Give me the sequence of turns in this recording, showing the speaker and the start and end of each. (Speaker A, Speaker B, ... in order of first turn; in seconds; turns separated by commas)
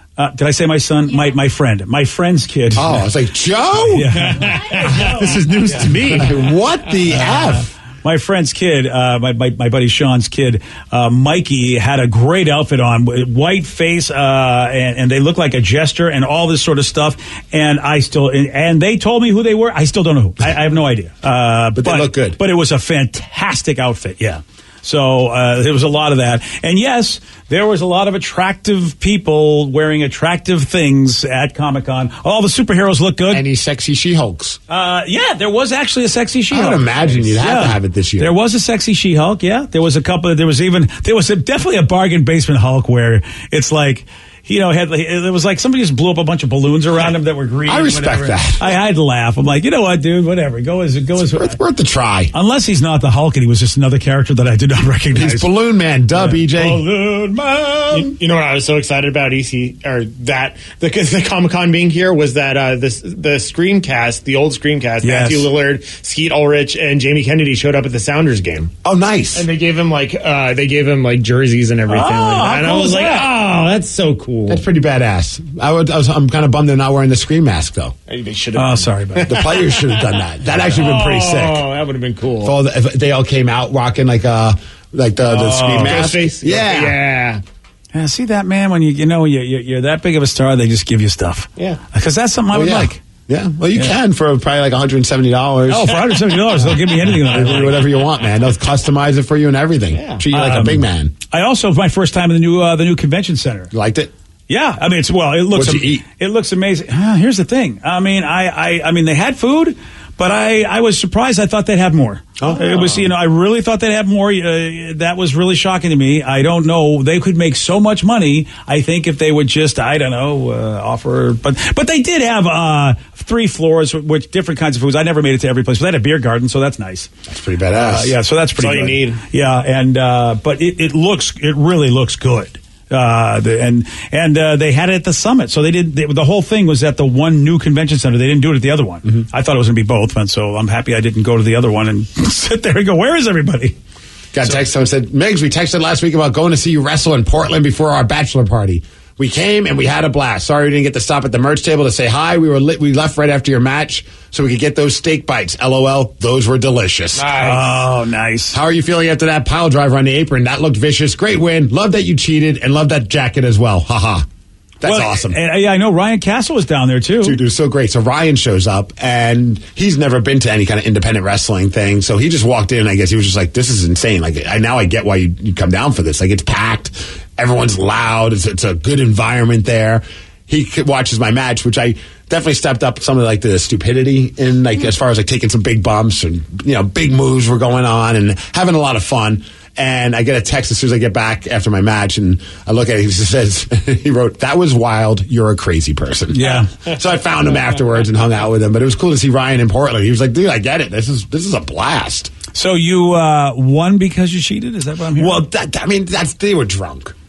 Speaker A: 0.2-3.0, Speaker B: 2.7-4.2, Speaker A: 3.7-6.3, Speaker C: 4.3-6.2, Speaker B: 6.1-7.7, Speaker A: 7.1-33.4, Speaker B: 21.8-22.4, Speaker B: 33.3-34.6, Speaker A: 34.7-51.6, Speaker B: 36.5-38.3, Speaker B: 47.6-48.6, Speaker B: 51.2-52.3, Speaker A: 52.3-55.5, Speaker B: 55.1-56.9, Speaker A: 56.1-58.1, Speaker C: 57.9-68.7, Speaker A: 65.0-65.5, Speaker B: 68.8-69.5, Speaker C: 69.3-74.6, Speaker A: 71.9-73.4, Speaker B: 74.5-77.9, Speaker C: 78.1-82.5, Speaker A: 78.5-79.4, Speaker B: 79.2-81.7, Speaker B: 82.4-87.0, Speaker A: 85.3-86.0, Speaker C: 85.5-87.4, Speaker A: 87.9-93.0, Speaker B: 92.5-96.1, Speaker A: 95.7-97.8, Speaker B: 97.2-101.1, Speaker C: 99.9-100.2, Speaker A: 100.3-103.7, Speaker B: 103.7-104.1, Speaker A: 104.5-127.1, Speaker B: 105.5-106.0, Speaker B: 112.4-113.1, Speaker B: 127.3-128.1, Speaker A: 127.7-143.7, Speaker C: 128.6-129.2, Speaker B: 144.3-157.5, Speaker C: 157.2-157.8, Speaker A: 157.4-158.6, Speaker B: 158.5-164.2, Speaker B: 164.8-165.4, Speaker A: 164.8-167.4, Speaker B: 167.2-202.3, Speaker A: 196.3-196.7, Speaker A: 202.5-205.4, Speaker B: 205.2-207.1